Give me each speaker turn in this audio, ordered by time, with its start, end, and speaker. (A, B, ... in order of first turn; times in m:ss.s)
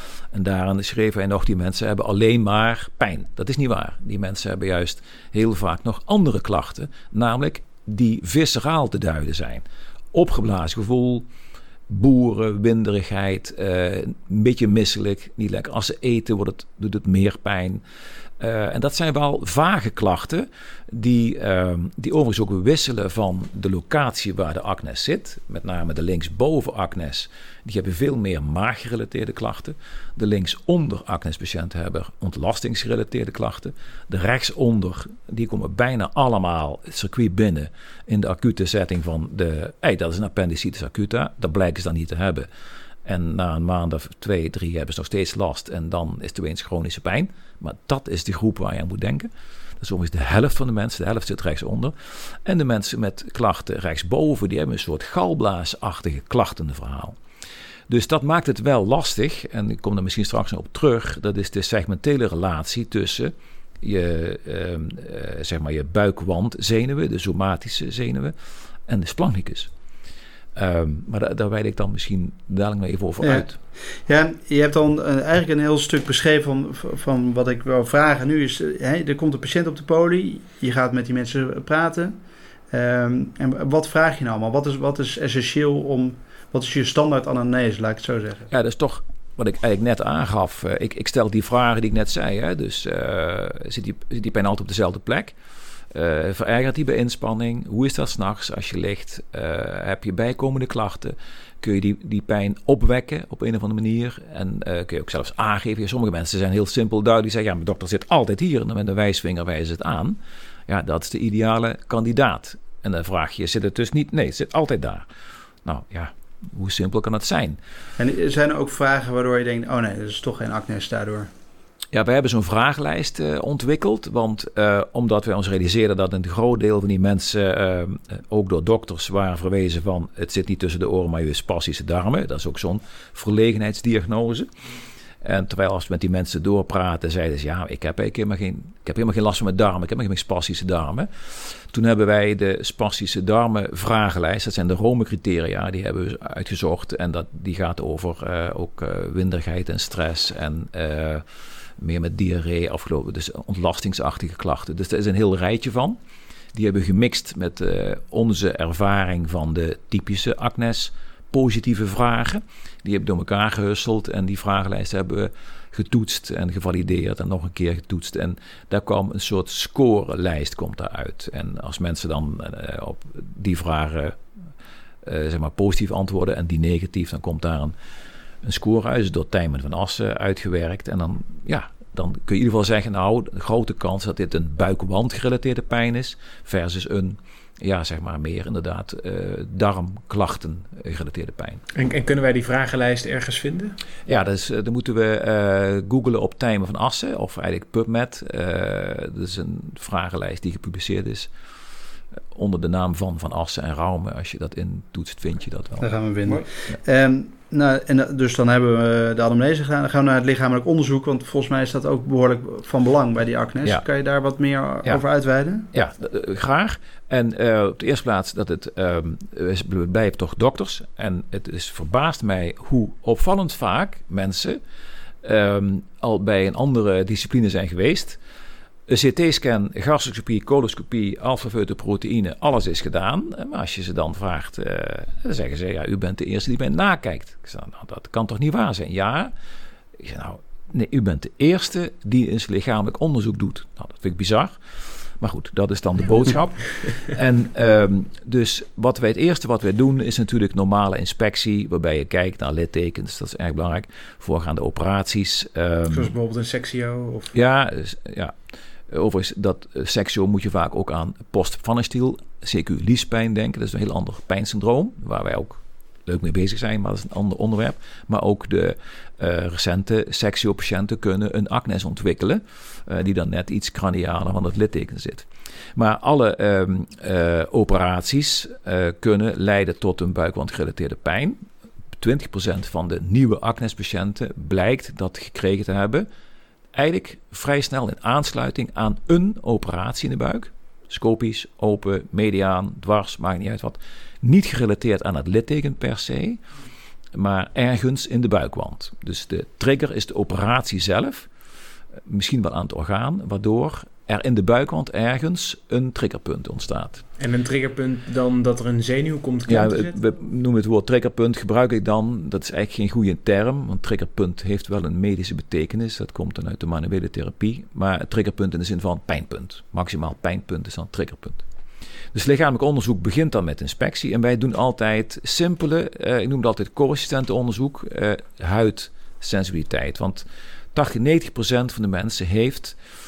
0:00.3-0:11.2 A
0:11.9-0:17.8 A
0:18.4-0:42.5 A
0:43.0-0:57.2 A
0:57.9-1:08.3 A
1:08.9-1:09.7 A
1:10.6-1:13.6 A
1:13.2-1:22.2 B
1:22.7-1:28.5 B
1:28.5-1:35.3 A
1:35.9-1:55.0 A
1:55.6-1:57.6 A
1:58.0-2:01.3 B
2:01.9-2:14.5 A
2:15.2-2:31.2 A
2:31.8-2:36.0 A
2:36.5-2:54.2 A
2:55.0-2:57.7 A
2:58.4-3:11.6 A
3:11.7-3:13.8 C
3:14.1-3:21.3 A
3:22.3-3:25.9 A
3:25.8-3:35.7 B
3:35.7-3:44.6 A
3:45.2-3:48.2 A
3:48.9-3:59.3 A
4:00.0-4:04.6 A
4:05.2-4:16.1 A
4:15.9-4:17.3 C
4:17.3-4:18.4 A
4:18.9-4:41.4 A
4:42.0-4:46.1 A
4:46.7-4:56.4 A
4:57.1-5:01.3 A
5:02.0-5:07.0 A
5:07.2-5:10.0 C
5:09.5-5:21.4 A
5:22.1-5:32.8 A